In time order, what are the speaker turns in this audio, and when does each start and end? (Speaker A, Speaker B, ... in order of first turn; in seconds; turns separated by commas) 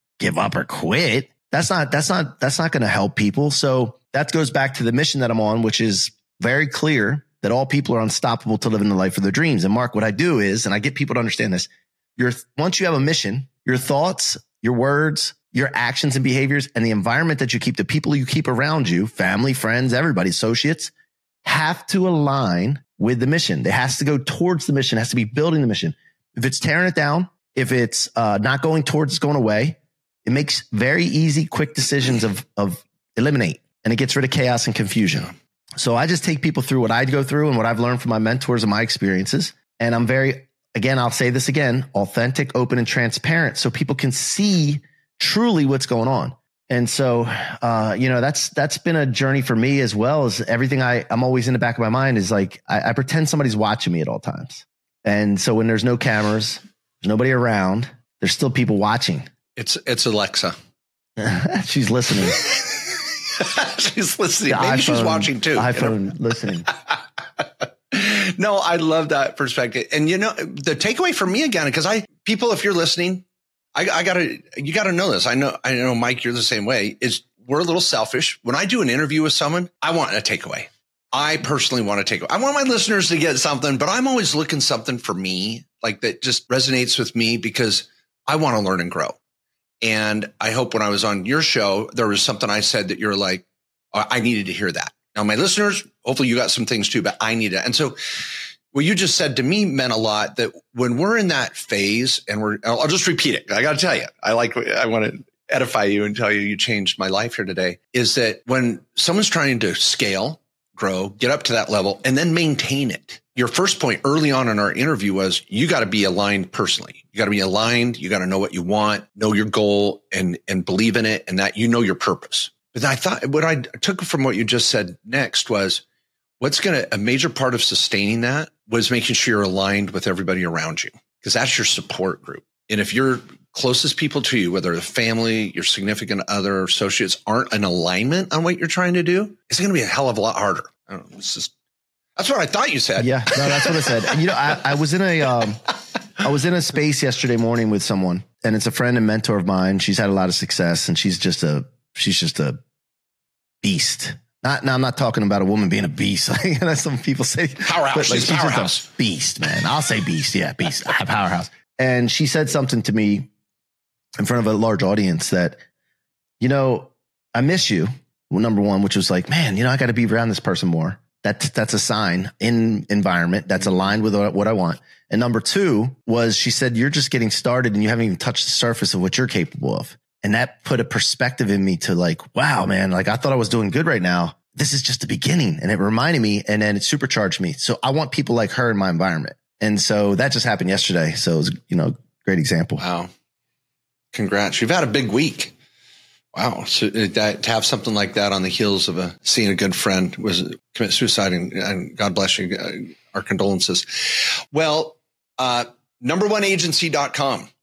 Speaker A: 0.2-20.9, Speaker A: 21.4-59.3, Speaker B: 59.5-60.5, Speaker A: 61.2-62.4, Speaker B: 62.2-89.2, Speaker A: 64.5-66.7, Speaker B: 89.8-125.8, Speaker B: 126.4-141.5, Speaker B: 142.2-144.6, Speaker A: 143.0-145.6, Speaker A: 146.2-152.6, Speaker A: 153.6-163.3, Speaker B: 157.6-158.9, Speaker A: 164.2-165.6, Speaker A: 166.4-192.8, Speaker B: 192.8-193.1, Speaker B: 194.1-195.5, Speaker B: 196.3-207.5